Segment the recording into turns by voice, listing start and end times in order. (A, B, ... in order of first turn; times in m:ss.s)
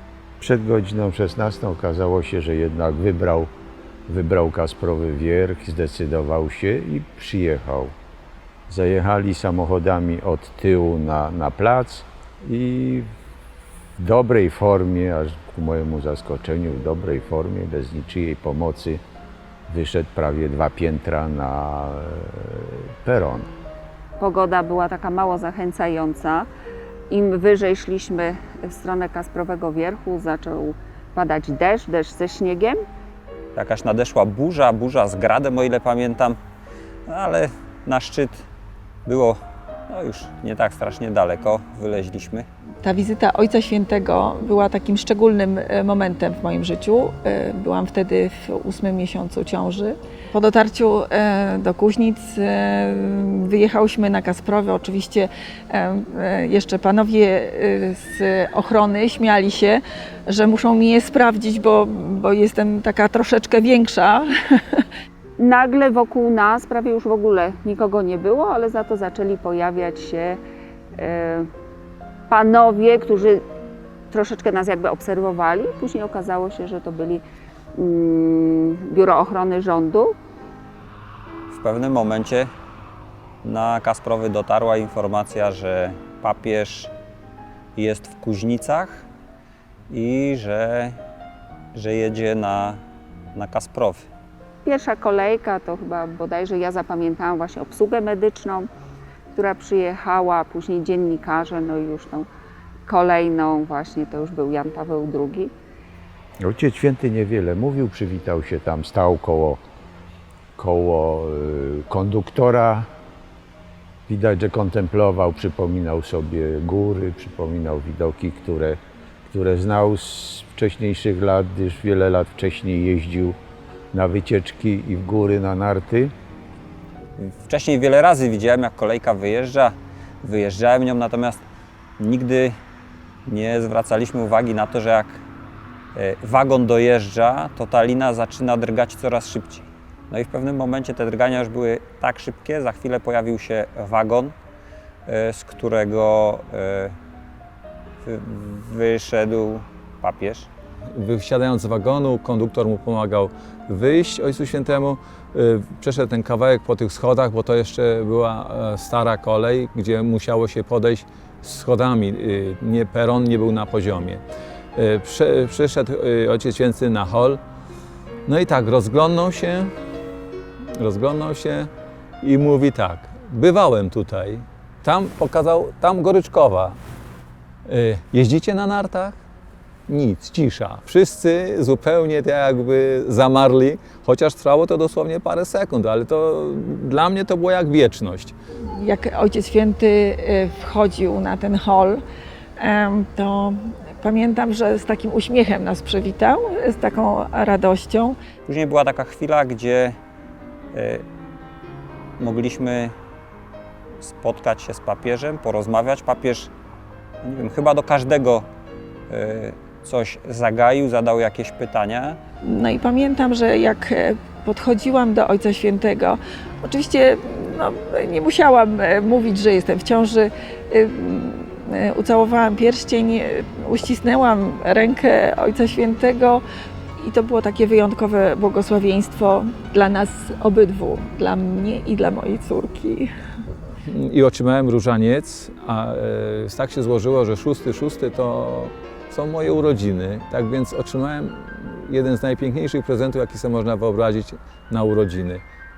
0:00.4-0:03.5 A
0:04.1-0:07.9 A
0:08.7-0:13.1 A
0:14.0-0:19.0 A
0:19.7-0:23.5 A
0:24.2-0:26.5 B
0:27.1-0:32.8 B
0:33.6-0:36.4 C
0:37.1-0:38.4 C
0:39.0-0:42.5 C
0:42.8-1:04.8 D
1:05.4-1:10.4 B
1:11.0-1:11.5 B
1:12.3-1:13.4 B
1:14.1-1:17.2 B
1:17.8-1:20.2 B
1:21.5-1:22.5 C
1:23.4-1:26.9 C
1:27.8-1:29.1 C
1:29.9-1:31.0 C
1:31.7-1:32.8 C
1:33.4-1:34.1 C
1:34.6-1:38.7 B
1:39.3-1:42.3 B
1:42.9-1:45.5 B
1:46.4-1:49.6 A
1:50.6-1:52.9 A
1:54.1-2:03.4 A
2:03.9-2:06.1 A
2:07.2-2:11.4 C
2:12.0-2:12.6 C
2:13.3-2:15.2 C
2:16.0-2:24.4 C
2:25.1-2:27.0 C
2:28.0-2:30.5 C
2:31.0-2:44.2 E
2:44.8-2:47.4 E
2:48.3-2:49.7 E
2:50.8-2:51.7 E
2:52.2-2:56.8 E
2:57.7-2:59.2 E
2:59.9-3:08.3 E
3:08.7-3:12.0 D
3:12.6-3:18.2 D
3:18.5-3:20.0 C
3:20.7-3:21.0 C
3:22.2-3:23.0 C
3:24.0-3:26.5 C
3:27.2-3:28.5 C
3:29.1-3:32.2 C
3:32.4-3:46.4 D
3:47.0-3:53.1 D
3:53.8-4:05.4 E